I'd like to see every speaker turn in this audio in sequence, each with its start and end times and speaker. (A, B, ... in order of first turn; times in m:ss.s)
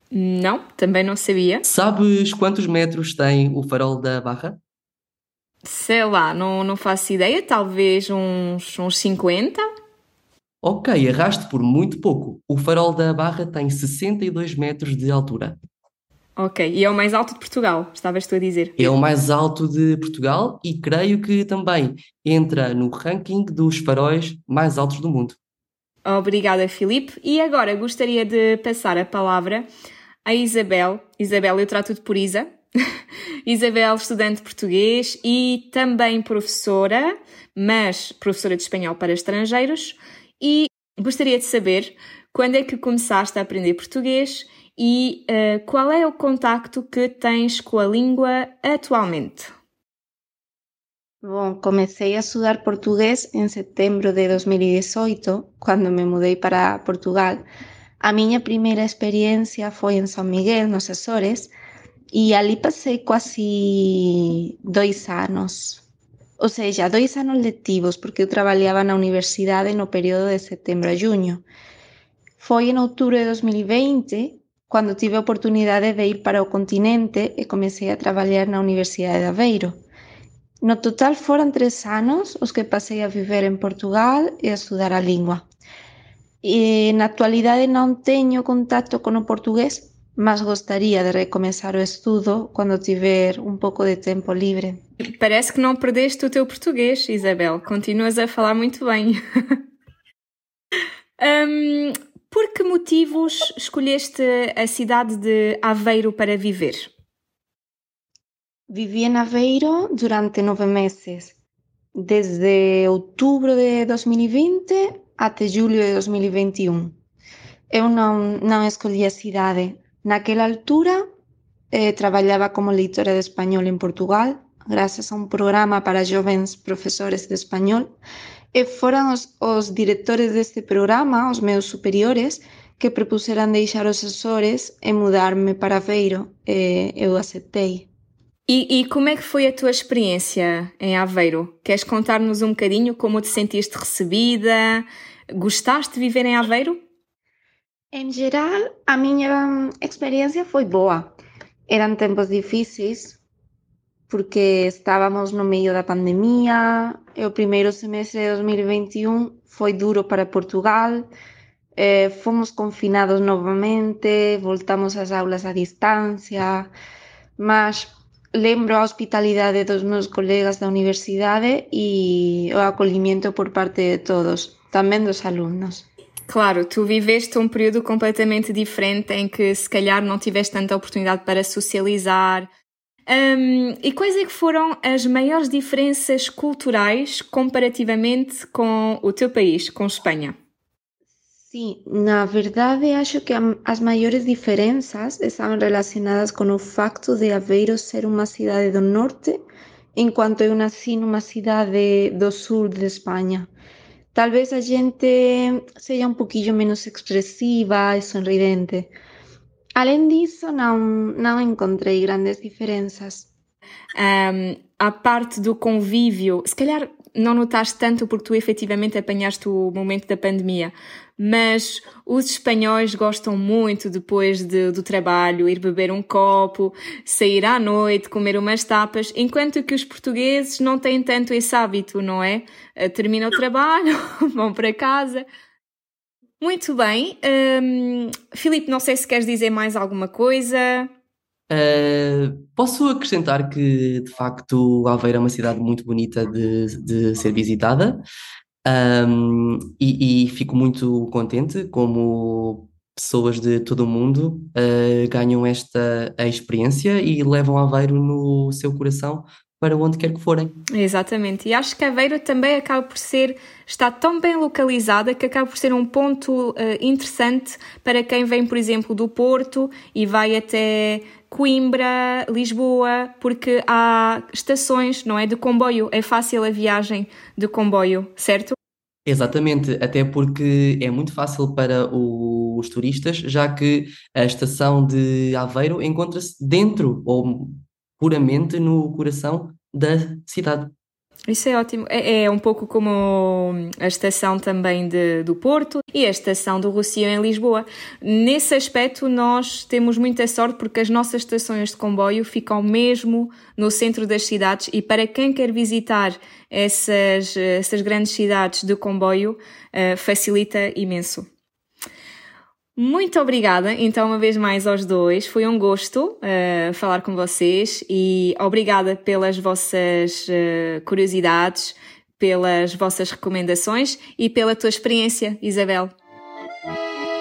0:00.1-0:01.6 A
0:01.7-0:04.6 B
0:05.6-0:09.6 A
0:10.6-0:15.6 B
0:16.4-0:18.9 A
0:18.8-0:25.4 B
0:26.0-0:29.6 A
0:30.2-0:32.5 A
0:33.4-0:49.5 A
0:51.2-0:57.4 C
0:58.0-1:01.5 C
1:02.1-1:05.8 C
1:06.4-1:11.4 C
1:12.4-1:19.8 C
1:20.6-1:25.4 C
1:26.4-1:34.8 C
1:35.2-1:39.2 A
1:41.2-1:46.9 A
1:48.7-1:51.3 C
1:51.9-1:57.0 C
1:57.7-2:01.0 C
2:01.7-2:08.0 C
2:08.5-2:17.9 C
2:18.5-2:26.8 A
2:27.9-2:31.1 C
2:31.7-2:33.2 C
2:34.1-2:41.1 C
2:41.8-2:46.7 C
2:47.4-2:55.9 C
2:56.3-3:02.5 A
3:03.1-3:10.3 A
3:11.5-3:19.4 C
3:20.0-3:23.5 C
3:24.1-3:28.9 C
3:29.8-3:33.3 C
3:33.9-3:55.2 A
3:56.4-4:00.9 A
4:01.5-4:08.0 B
4:08.6-4:20.6 B
4:20.7-4:38.5 A
4:39.0-4:50.7 B
4:51.3-5:11.3 A
5:12.8-5:25.9 A